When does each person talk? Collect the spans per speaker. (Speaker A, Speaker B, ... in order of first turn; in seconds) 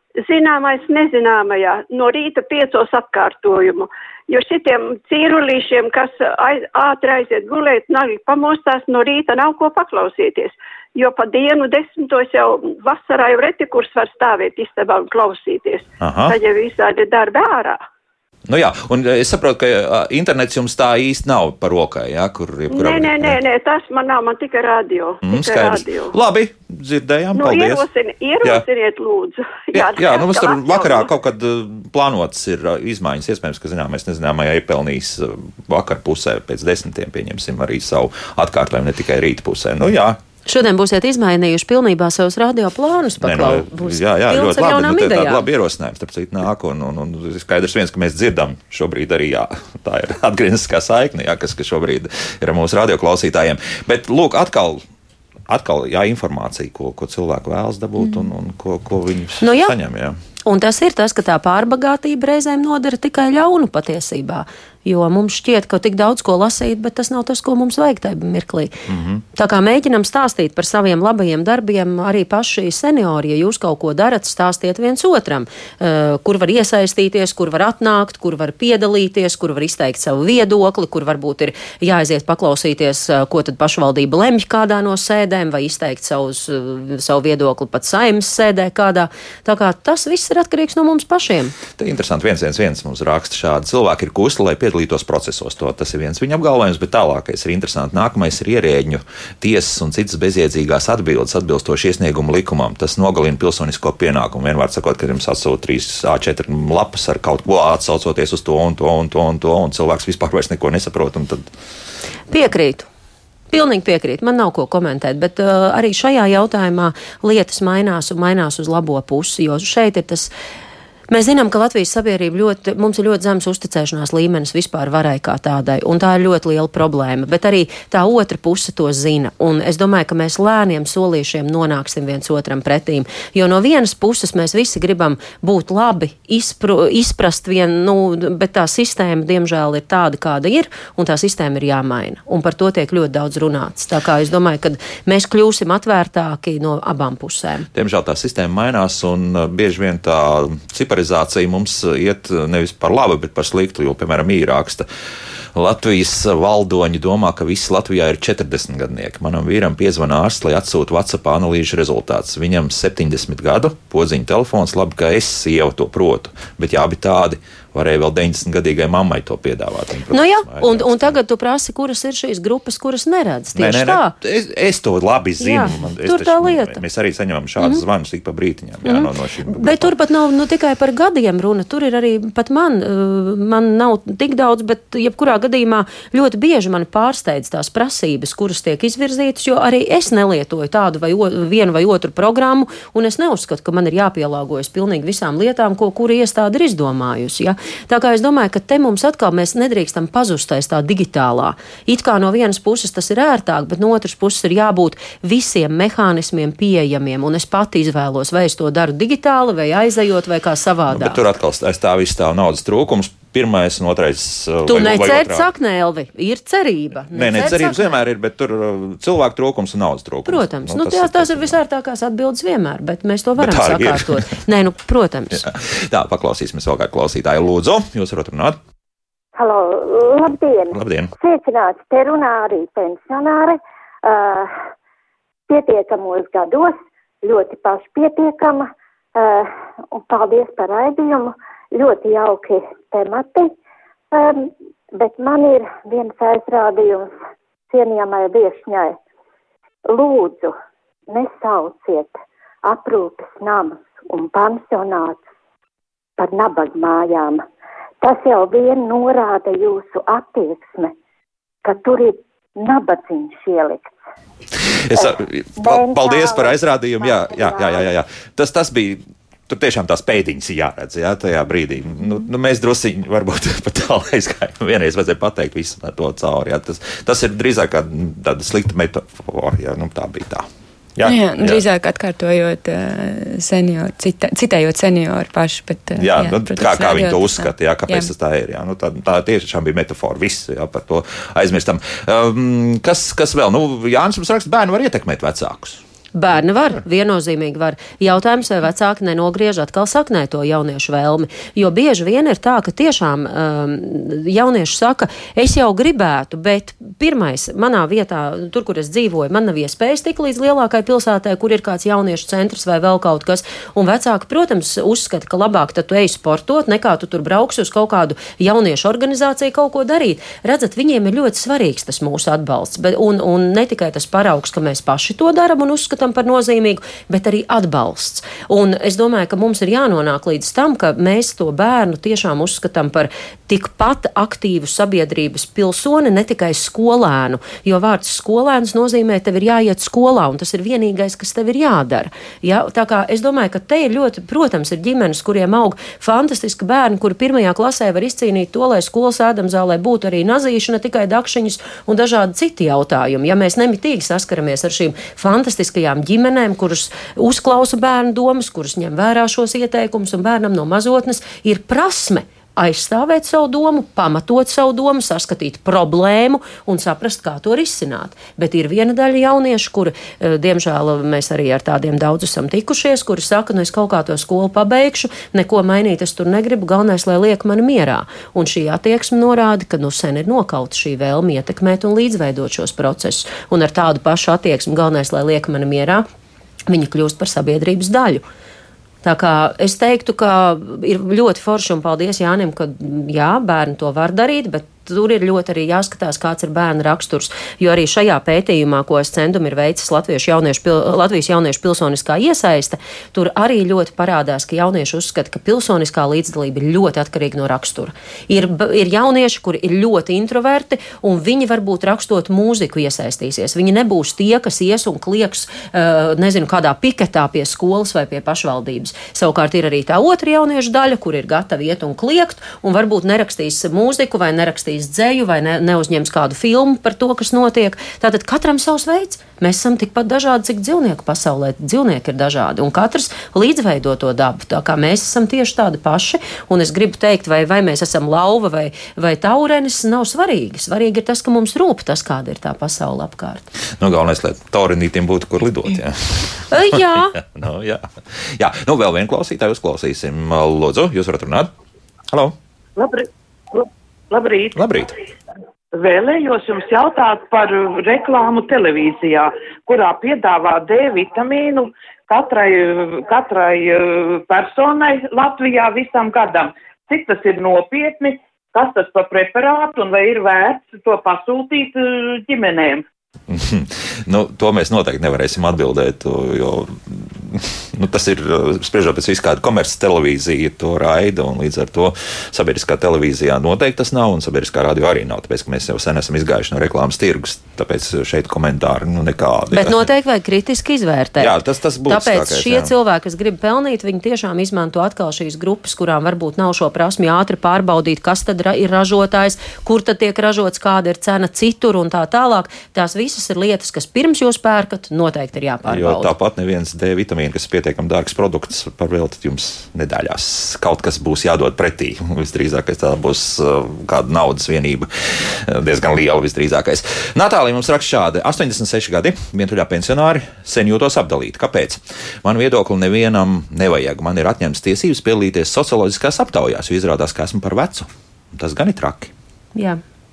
Speaker A: 0.2-17.8, 22.7-26.1, 27.3-31.1
Speaker B: 16.0-16.4, 18.5-23.4, 25.2-27.9, 29.7-40.2, 43.2-54.8, 55.5-60.2, 68.9-69.2, 91.7-111.5, 147.7-154.9, 155.6-171.2, 173.6-179.9, 210.9-215.5, 217.1-221.6, 223.4-224.4, 225.3-228.6, 230.7-231.1, 264.5-281.6, 286.0-295.8, 443.8-451.5, 452.1-452.4, 454.6-454.9, 473.3-489.9, 491.2-492.7, 505.7-529.1
Speaker C: 40.5-45.5, 59.4-59.8, 60.5-68.8, 69.3-91.6, 112.3-112.9, 113.5-120.3, 121.1-147.7, 170.1-174.1, 175.4-176.8, 178.8-211.2, 214.7-218.0, 220.3-225.5, 296.1-386.1, 386.7-388.2, 389.0-443.5, 446.5-447.2, 489.5-506.1, 529.5-529.8
Speaker D: 229.3-234.5, 235.5-243.5, 244.1-247.1, 247.7-249.0, 249.9-250.6, 251.1-252.1, 252.7-255.2, 256.2-257.4, 258.0-260.9, 261.6-264.0, 264.9-267.9
Speaker E: 281.0-288.1
Speaker F: 452.8-454.6, 455.7-472.8